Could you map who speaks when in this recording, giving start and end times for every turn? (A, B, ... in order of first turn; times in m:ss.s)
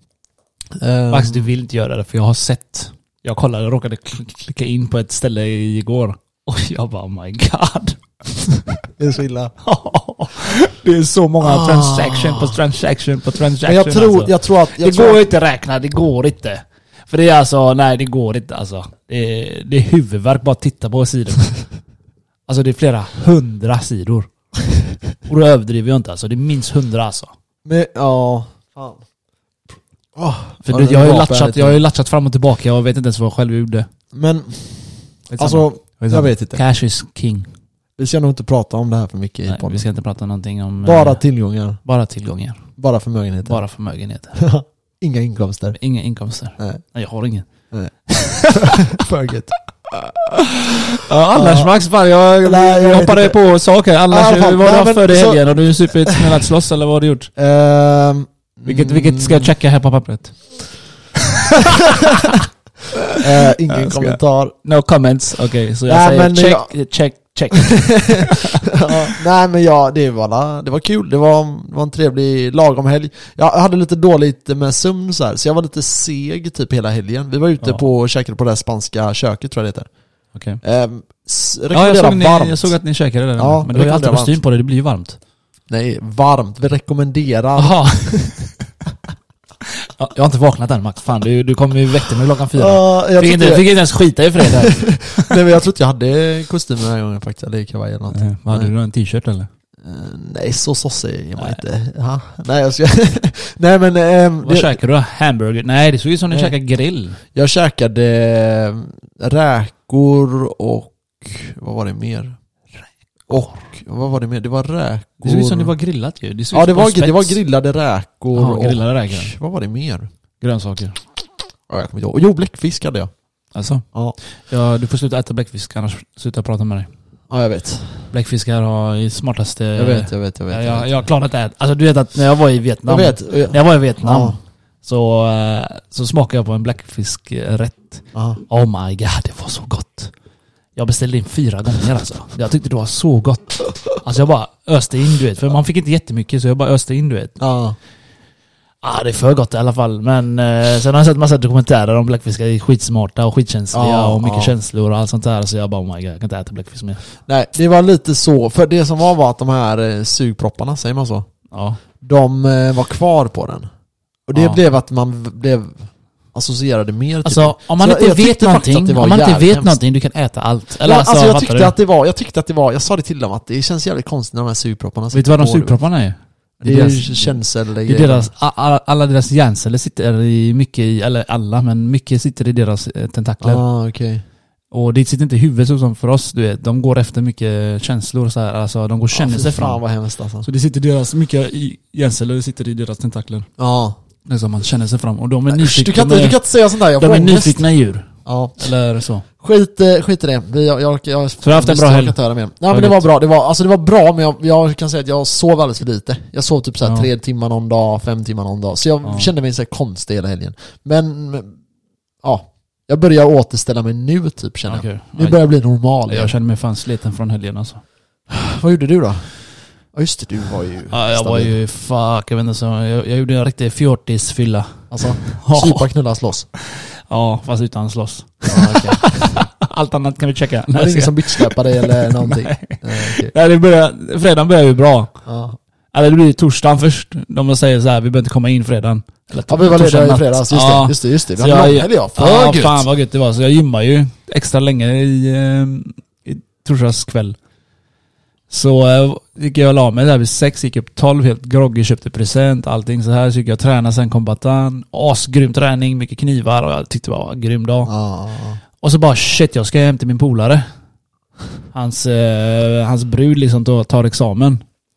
0:00.8-0:01.5 A
0:01.1-0:08.0 B
0:09.0-0:09.5 A
0:09.6-0:21.7 B
0:11.4-0:12.6 A
0:13.6-0:15.2 A
0:22.5-0:24.3 B
0:25.2-0:27.3 B
0:27.6-0:29.0 A
0:30.2-0:31.8 A
0:30.6-0:33.9 B
0:34.1-0:36.6 A
0:35.3-0:37.5 B
0:38.0-0:39.8 A
0:39.5-0:41.2 B
0:40.8-0:41.8 A
0:41.8-0:42.6 B
0:42.8-0:43.6 A
0:43.4-0:44.4 B
0:44.4-0:45.8 A
0:45.7-0:47.5 B
0:47.7-0:50.5 A
0:48.1-0:48.9 B
0:50.6-0:57.3 B
0:51.3-0:51.7 A
0:52.4-0:53.4 A
0:54.1-0:56.4 A
0:57.4-0:59.5 A
0:58.6-1:00.4 B
1:01.2-1:03.2 B
1:01.5-1:02.4 A
1:03.1-1:04.5 A
1:03.7-1:08.9 B
1:05.9-1:06.7 A
1:07.5-1:19.9 A
1:20.3-1:20.6 B
1:20.6-1:22.7 A
1:21.7-1:25.2 B
1:23.4-1:24.3 A
1:25.7-1:28.4 A
1:27.6-1:28.4 B
1:29.8-1:35.4 B
1:32.6-1:33.7 A
1:34.4-1:38.7 A
1:38.1-1:39.5 B
1:39.8-1:44.8 A
1:44.4-1:47.2 B
1:47.3-1:52.4 A
1:53.3-1:55.7 A
1:55.2-1:57.4 B
1:56.5-2:00.1 A
1:58.3-1:59.3 B
2:00.4-2:01.0 B
2:01.7-2:03.1 A
2:03.5-2:03.8 B
2:04.5-2:06.9 B
2:07.3-2:08.1 A
2:08.1-2:20.1 B
2:09.8-2:10.9 A
2:12.9-2:14.4 A
2:18.1-2:18.4 A
2:20.8-2:27.4 B
2:27.4-2:27.8 A
2:28.8-2:37.0 B
2:33.7-2:34.5 A
2:37.3-2:41.3 A
2:41.5-2:41.8 B
2:42.0-2:43.7 A
2:44.3-2:49.7 A
2:44.3-2:44.6 B
2:47.2-2:51.7 B
2:50.8-2:55.8 A
2:55.1-3:03.6 B
2:56.6-2:58.3 A
3:03.4-3:04.2 A
3:04.7-3:09.8 B
3:09.1-3:10.5 A
3:10.4-3:13.5 B
3:13.6-3:14.0 A
3:14.2-3:19.2 B
3:15.5-3:17.6 A
3:18.2-3:18.6 A
3:19.4-3:31.6 A
3:21.4-3:22.2 B
3:22.7-3:23.0 B
3:26.8-3:27.1 B
3:29.0-3:29.3 B
3:32.2-3:36.3 A
3:34.7-3:35.4 B
3:36.1-3:37.8 B
3:38.3-3:39.3 A
3:39.9-3:41.5 A
3:40.9-3:45.8 B
3:44.9-3:46.5 A
3:46.5-3:55.1 B
3:48.5-3:49.4 A
3:50.7-3:53.3 A
3:55.2-3:55.6 A
3:55.9-4:07.4 B
3:59.5-4:02.9 A
4:08.5-4:17.9 B
4:17.8-4:18.6 A
4:18.8-4:20.6 B
4:21.7-4:24.6 B